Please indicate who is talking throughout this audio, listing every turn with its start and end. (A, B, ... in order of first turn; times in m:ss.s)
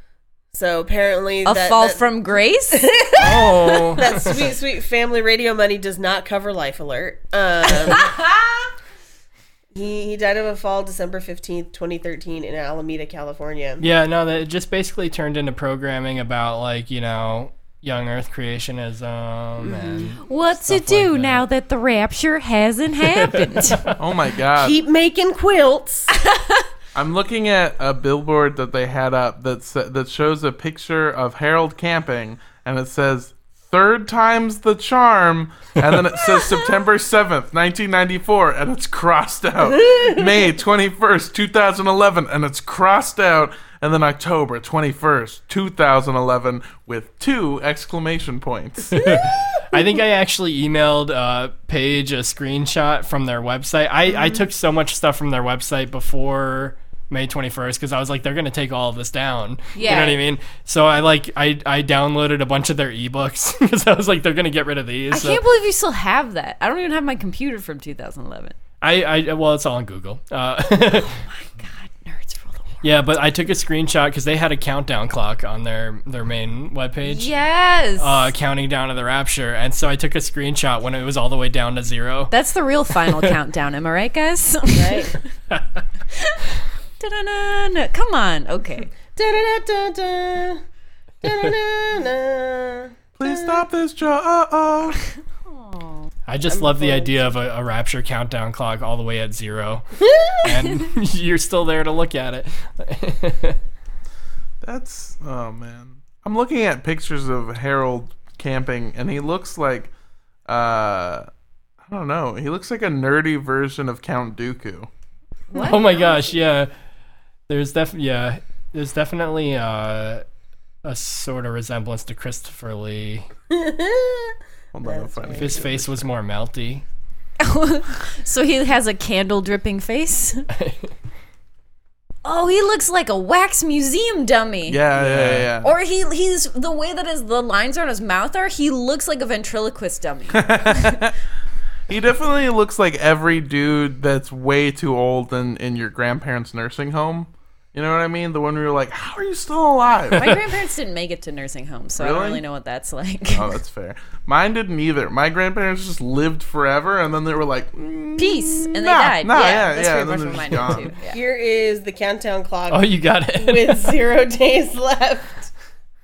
0:00.5-0:02.0 A
0:01.4-0:02.9 B
0:02.7-0:08.1 A
0:03.2-0:04.3 C
0:09.7-0:13.8 A
0:13.8-0:21.4 C
0:19.6-0:20.1 A
0:20.2-0:23.9 B
0:23.2-0:24.0 C
0:24.0-0:24.8 D
0:24.5-0:26.1 A
0:26.2-0:26.6 B
0:26.9-0:49.1 D
0:36.3-0:36.6 B
0:39.7-0:40.3 A
0:48.9-1:05.4 C
0:49.0-0:49.8 A
0:54.1-0:54.4 A
0:59.7-1:00.2 B
1:05.1-1:08.5 B
1:08.8-1:11.1 C
1:10.9-1:12.8 B
1:12.8-1:17.3 C
1:17.0-1:18.3 B
1:18.0-1:22.3 C
1:22.3-1:25.2 B
1:23.0-1:23.3 C
1:24.7-1:25.2 A
1:25.5-1:25.8 C
1:26.1-1:26.4 B
1:27.0-1:28.9 B
1:29.1-1:30.6 A
1:31.2-1:33.6 A
1:33.2-1:35.0 D
1:35.4-1:36.1 B
1:36.3-1:39.8 C
1:36.5-1:37.3 A
1:40.0-1:40.4 A
1:40.3-1:43.6 C
1:44.6-1:49.9 D
1:50.4-1:51.3 D
1:51.8-1:54.9 D
1:55.5-1:56.3 B
1:55.5-1:56.7 C
1:57.5-2:00.2 C
2:00.8-2:03.3 C
2:03.5-2:05.7 A
2:04.7-2:06.0 D
2:05.3-2:06.8 C
2:07.4-2:10.5 B
2:10.5-2:10.9 C
2:12.2-2:14.8 B
2:14.7-2:15.7 D
2:14.9-2:15.5 C
2:15.6-2:21.0 B
2:20.3-2:21.1 D
2:21.9-2:30.4 D
2:30.1-2:33.6 B
2:32.0-2:32.4 D
2:33.3-2:40.9 D
2:38.2-2:41.2 B
2:39.3-2:39.7 A
2:41.0-2:45.5 A
2:42.7-2:44.0 C